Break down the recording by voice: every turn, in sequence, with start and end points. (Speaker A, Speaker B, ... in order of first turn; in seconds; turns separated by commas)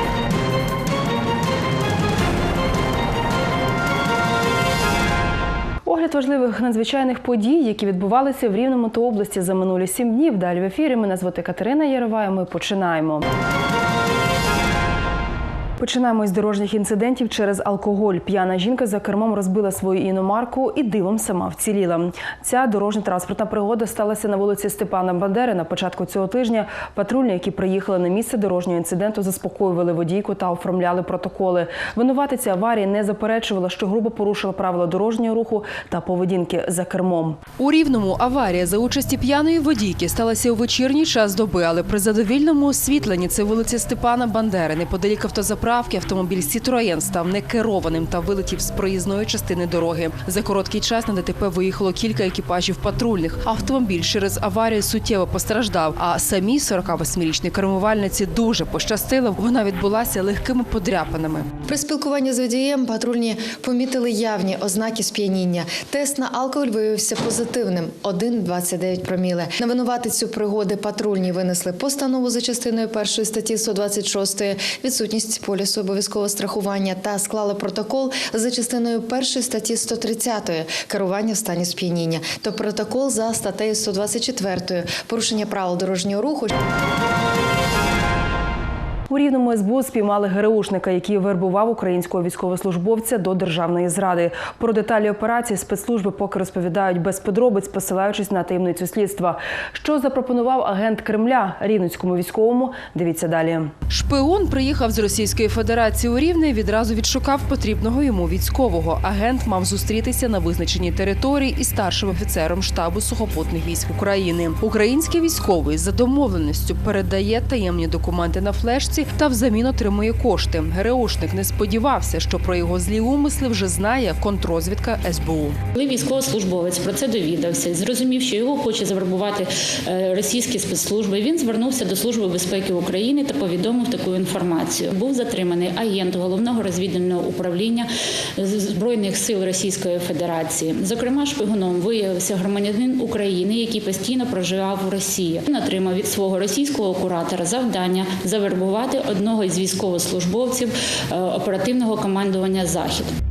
Speaker A: 5.8-13.3, Speaker B: 5.9-13.0, Speaker B: 15.8-61.5, Speaker A: 16.4-21.7, Speaker A: 22.3-28.0, Speaker A: 28.7-37.4, Speaker C: 61.7-86.5, Speaker A: 89.1-95.5, Speaker B: 93.8-102.8, Speaker A: 96.0-101.1, Speaker A: 102.0-103.6, Speaker B: 103.9-125.6, Speaker D: 125.7-153.1